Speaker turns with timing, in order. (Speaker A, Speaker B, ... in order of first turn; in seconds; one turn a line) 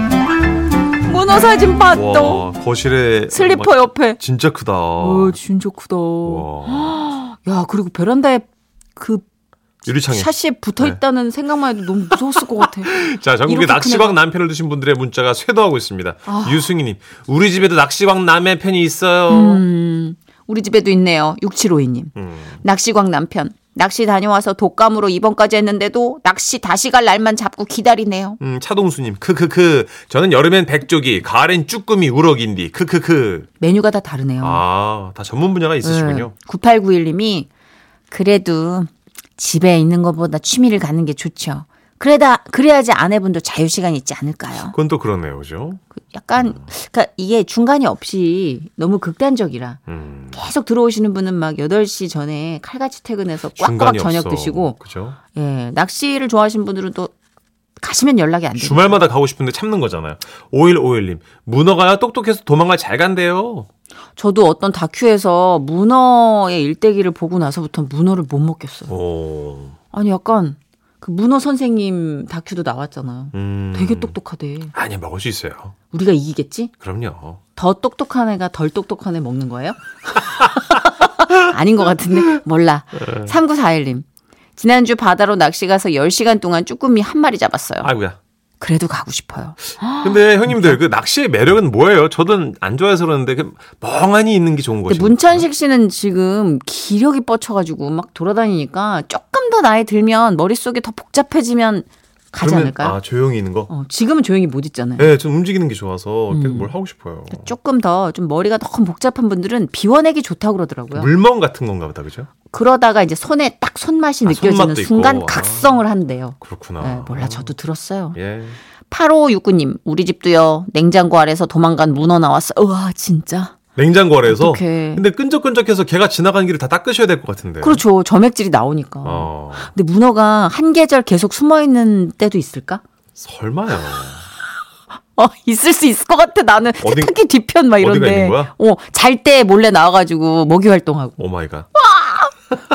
Speaker A: 1.0-2.4
Speaker B: 1.9-5.3
Speaker A: 3.3-4.2
Speaker A: 5.0-9.2
Speaker B: 6.2-7.0
Speaker B: 9.8-11.0
Speaker A: 10.0-14.2
Speaker B: 12.1-19.6
Speaker A: 16.2-16.7
Speaker A: 19.3-28.4
Speaker B: 22.1-22.6
Speaker B: 28.4-33.5
Speaker A: 33.6-34.6
Speaker B: 34.4-36.3
Speaker A: 35.8-37.5
Speaker A: 38.1-44.8
Speaker B: 44.5-45.8
Speaker A: 46.0-49.8
Speaker B: 46.4-46.6
Speaker B: 49.9-50.4
Speaker A: 50.3-54.8
Speaker B: 53.5-55.2
Speaker A: 55.3-57.1
Speaker A: 57.8-59.0
Speaker B: 58.5-63.7
Speaker A: 64.2-68.9
Speaker B: 68.9-69.8
Speaker A: 69.9-74.7
Speaker B: 73.3-74.2
Speaker B: 74.7-75.8
Speaker A: 75.9-76.7
Speaker B: 76.8-77.4
Speaker A: 77.5-84.0
Speaker B: 83.0-83.3
Speaker A: 84.6-87.9
Speaker B: 87.8-88.2
Speaker A: 88.6-90.8
Speaker B: 90.0-95.5
Speaker A: 94.9-103.0
Speaker B: 102.4-103.7
Speaker A: 103.7-105.1
Speaker B: 105.0-107.5
Speaker A: 106.3-106.7
Speaker A: 107.3-111.1
Speaker B: 110.9-112.3
Speaker A: 112.5-118.2
Speaker B: 114.2-115.8
Speaker B: 116.4-117.5
Speaker B: 118.1-118.6
Speaker A: 118.9-123.5
Speaker B: 123.8-127.8
Speaker A: 124.2-125.0
Speaker A: 127.6-132.8
Speaker B: 129.0-129.7
Speaker B: 133.2-134.2
Speaker A: 135.1-141.2
Speaker B: 136.8-137.2
Speaker B: 137.8-138.5
Speaker B: 141.2-141.7
Speaker A: 141.7-142.3